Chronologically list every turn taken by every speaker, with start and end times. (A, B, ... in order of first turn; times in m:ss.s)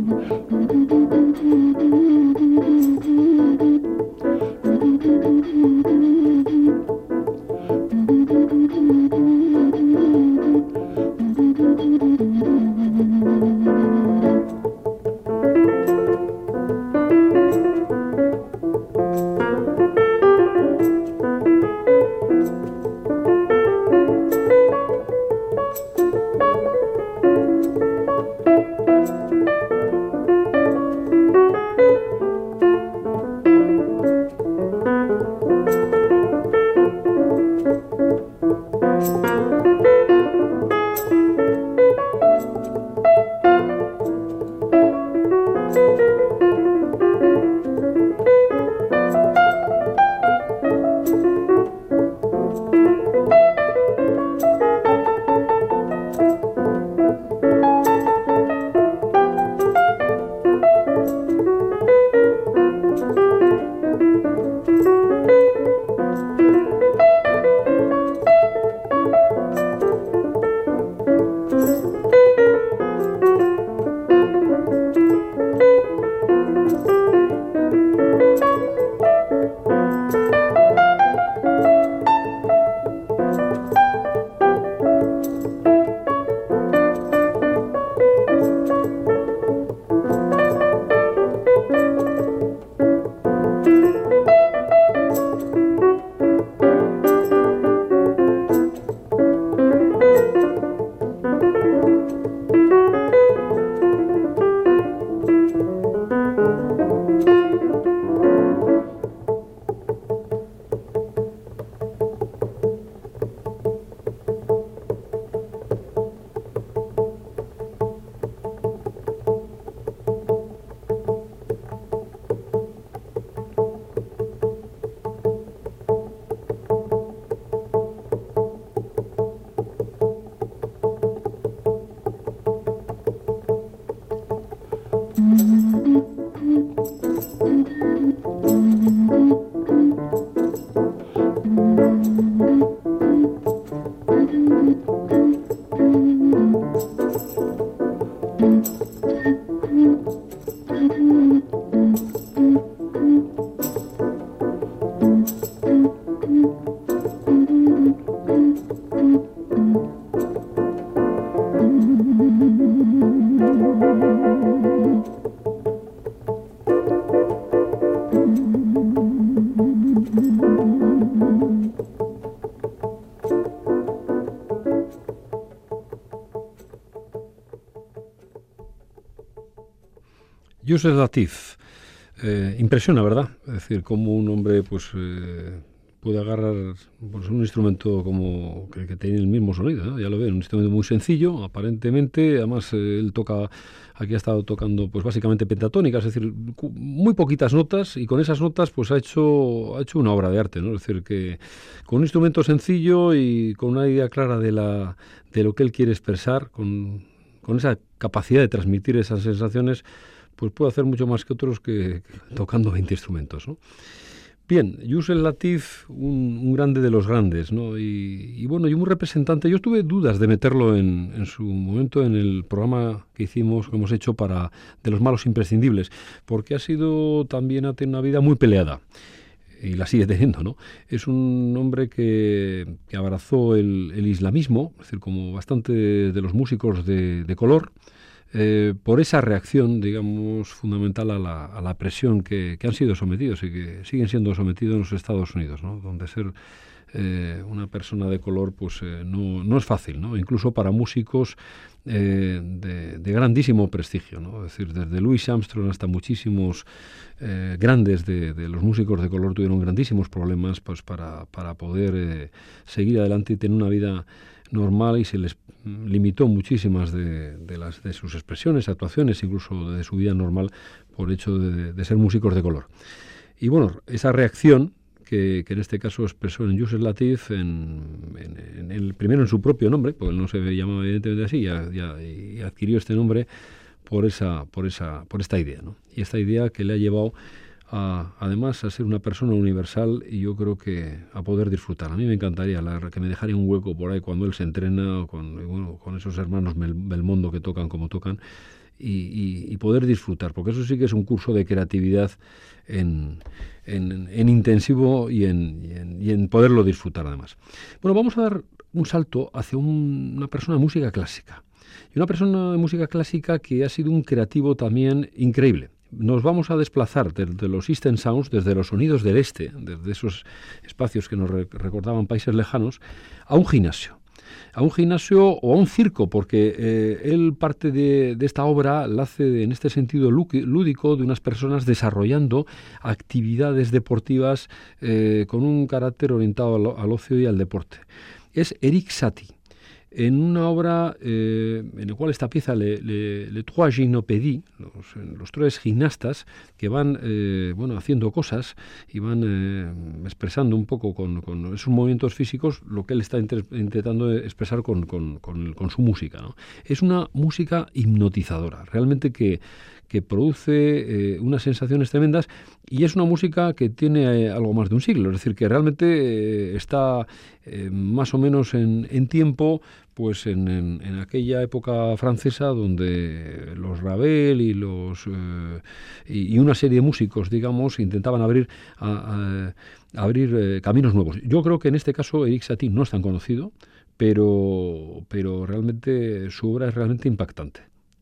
3:00.6-3:01.6 A
3:02.2-3:29.8 A
3:30.4-3:33.6 A
3:34.5-3:48.8 A
3:49.6-3:57.7 A
3:58.3-4:06.3 A
4:06.9-4:16.6 A
4:17.2-4:32.7 A
4:33.4-4:43.3 A
4:43.8-4:47.1 A
4:47.7-4:58.2 A
4:58.8-5:11.4 A
5:11.9-5:24.0 A
5:24.5-5:39.3 A
5:39.9-6:27.7 A